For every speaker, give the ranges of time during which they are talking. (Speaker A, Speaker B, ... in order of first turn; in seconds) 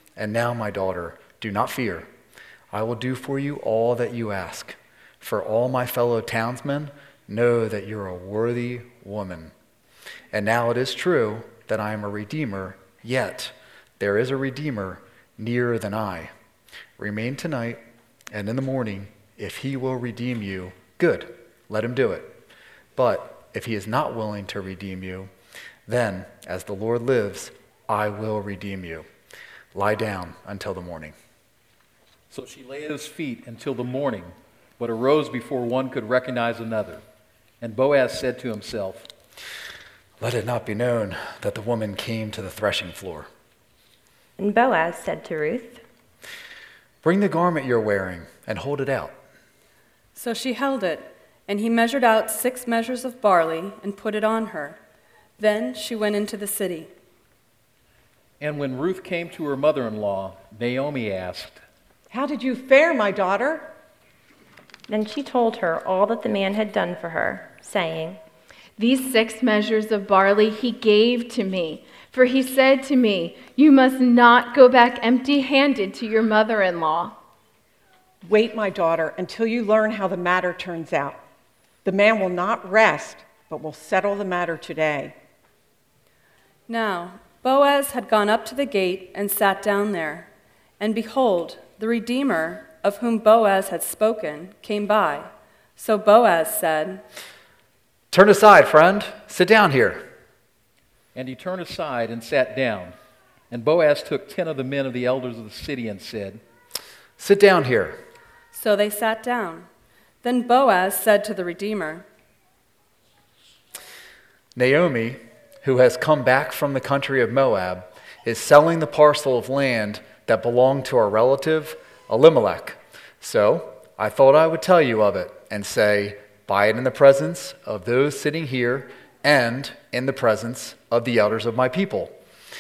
Speaker A: 0.2-2.1, 2.7-9.5, 10.3-16.3, 17.0-22.4, 23.0-25.3, 25.9-29.1, 29.7-31.1, 40.2-43.3, 47.0-49.2, 98.1-100.0, 107.2-108.0, 114.6-132.2
Speaker B: 32.3-37.0, 37.6-39.1, 58.4-61.6, 101.2-103.0, 103.5-106.4
Speaker C: 44.4-45.8, 64.9-68.2
Speaker D: 50.1-54.8, 55.4-56.9, 86.7-90.3, 90.8-97.0, 108.5-109.7, 110.2-112.0
Speaker E: 62.1-63.7, 78.2-81.2, 81.8-85.2
Speaker F: 68.8-77.2